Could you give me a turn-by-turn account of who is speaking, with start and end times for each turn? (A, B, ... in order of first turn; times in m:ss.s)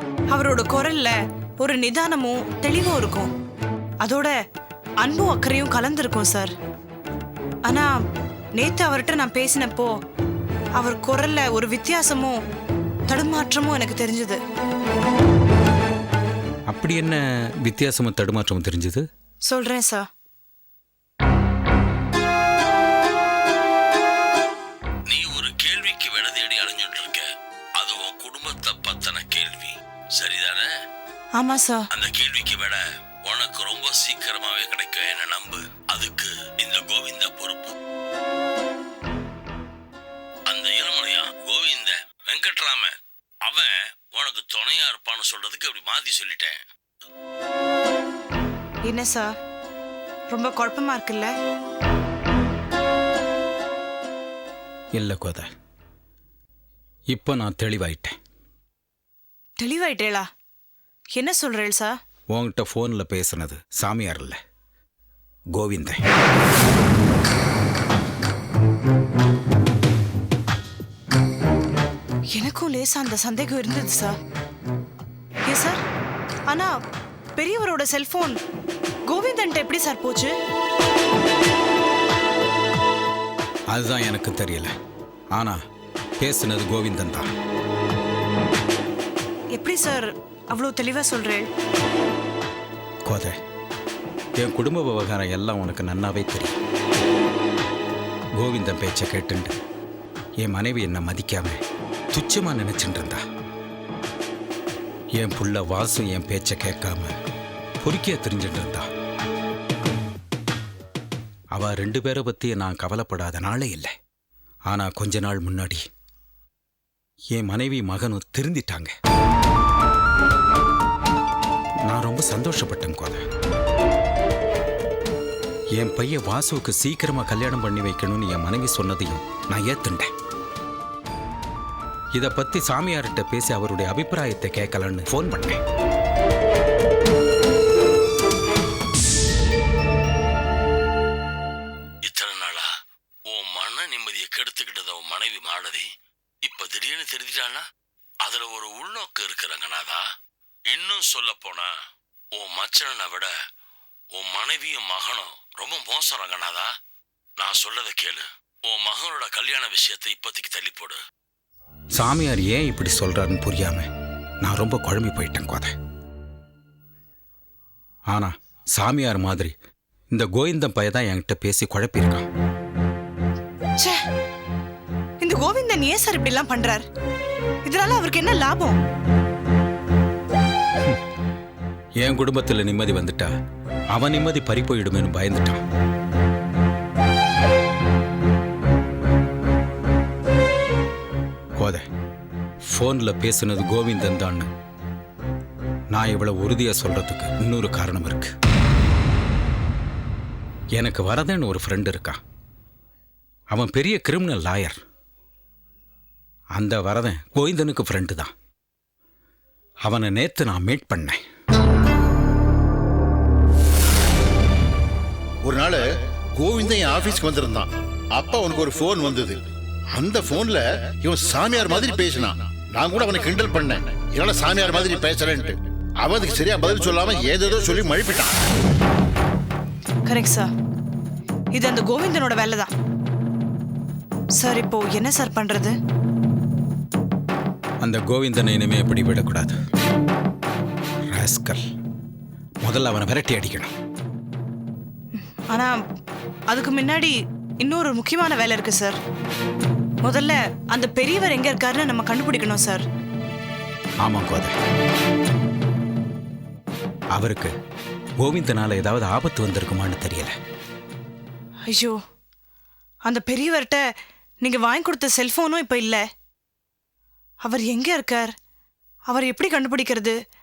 0:00.3-0:03.3 A
0:04.0-0:04.3 A
0:05.0-0:06.5 A
0:08.6-0:09.9 A
0:10.8-0:12.3 A
0:13.1-0:14.4 A
0:16.7-0:19.0 B
0:19.5-0:20.0 A
0:25.1-0:27.2 C
0:27.8-0:30.7 C
0:31.3-0:31.9 A
0:31.9-0:37.8 C
0:40.5-0:42.9 C
0:43.4-0:46.6 C
0:48.8-0:49.3 A
0:50.3-0:51.3 A
0:54.9-0:55.5 B
0:57.1-0:58.2 B
0:59.6-1:00.2 A
1:01.2-1:02.0 A
1:02.3-1:04.4 B
1:05.5-1:06.0 B
1:12.3-1:14.1 A
1:15.4-1:15.8 A
1:17.4-1:18.4 A
1:19.1-1:20.4 A
1:23.7-1:24.7 B
1:26.2-1:27.3 B
1:29.5-1:31.5 A
1:33.0-1:33.4 B
1:34.4-1:36.5 B
1:38.4-1:39.5 B
1:40.4-1:41.6 B
1:42.1-1:43.2 B
1:45.2-1:47.1 B
1:47.8-1:48.9 B
1:51.5-1:53.9 B
1:54.7-1:55.8 B
1:57.3-1:58.9 B
2:01.8-2:03.2 B
2:05.7-2:10.1 B
2:12.1-2:15.6 B
2:22.0-2:22.7 C
2:23.3-2:25.9 C
2:26.4-2:27.6 C
2:28.2-2:30.0 C
2:30.7-2:31.7 C
2:32.3-2:33.3 C
2:34.1-2:36.7 C
2:37.4-2:41.0 C
2:41.9-2:43.9 B
2:44.4-2:45.7 B
2:48.1-2:49.5 B
2:50.1-2:52.2 B
2:55.2-2:56.8 A
2:57.6-2:58.8 A
3:02.0-3:03.3 B
3:03.9-3:05.6 B
3:11.6-3:11.8 B
3:12.6-3:14.5 B
3:15.9-3:18.3 B
3:20.7-3:22.2 B
3:23.5-3:24.8 B
3:26.5-3:28.3 B
3:29.8-3:31.2 B
3:35.4-3:35.8 D
3:36.4-3:39.4 D
3:39.9-3:48.3 D
3:50.0-3:50.5 A
3:51.5-3:52.7 A
3:54.4-3:55.7 A
3:57.8-3:59.6 B
4:01.1-4:01.6 B
4:02.6-4:03.7 B
4:05.2-4:05.7 A
4:06.5-4:09.0 A
4:10.0-4:12.8 A
4:14.0-4:14.5 B
4:17.1-4:17.5 B
4:18.2-4:20.3 B
4:21.7-4:22.0 A
4:23.0-4:23.8 A
4:24.4-4:26.0 A
4:27.4-4:28.3 A
4:29.1-4:30.2 A